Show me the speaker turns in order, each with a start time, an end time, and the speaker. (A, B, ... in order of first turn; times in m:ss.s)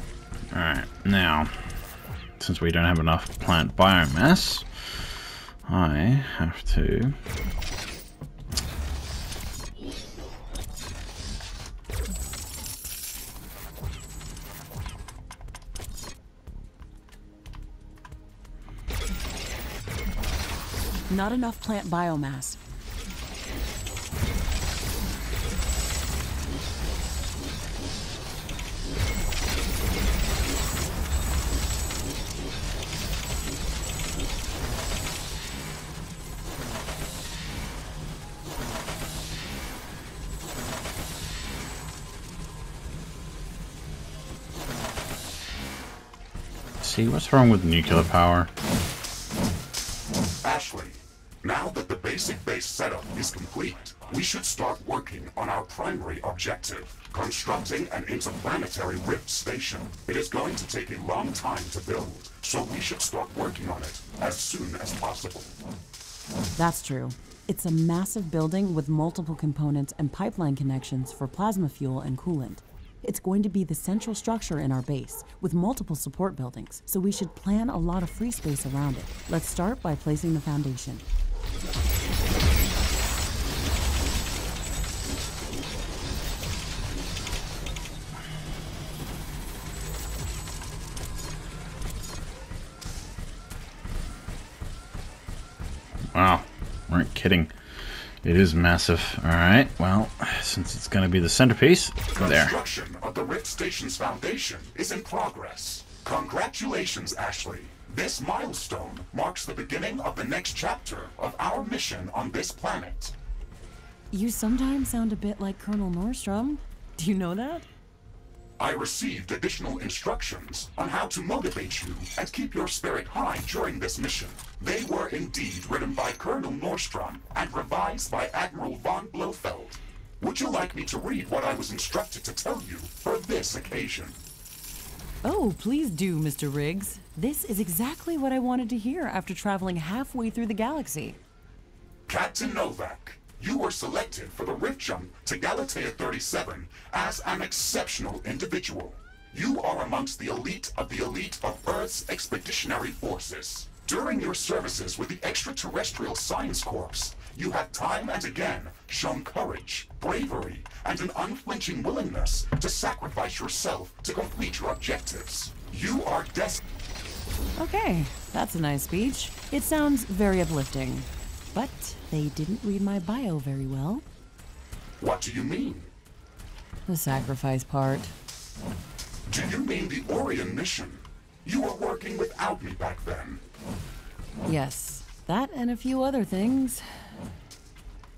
0:00.5-0:01.6 A
0:02.4-0:07.2 A
0:21.1-0:22.6 B
0:46.8-0:48.5 A
0:50.4-1:05.5 C
1:06.6-1:21.1 B
1:36.1-1:37.5 A
1:38.2-1:42.5 A
1:42.1-1:53.1 C
1:54.1-1:57.7 B
1:58.6-2:14.2 C
2:15.2-2:21.2 B
2:22.1-2:46.6 C
2:47.6-2:54.0 B
2:55.0-2:55.9 C
2:56.9-2:58.1 B
2:59.3-3:03.4 C
3:04.5-3:06.9 B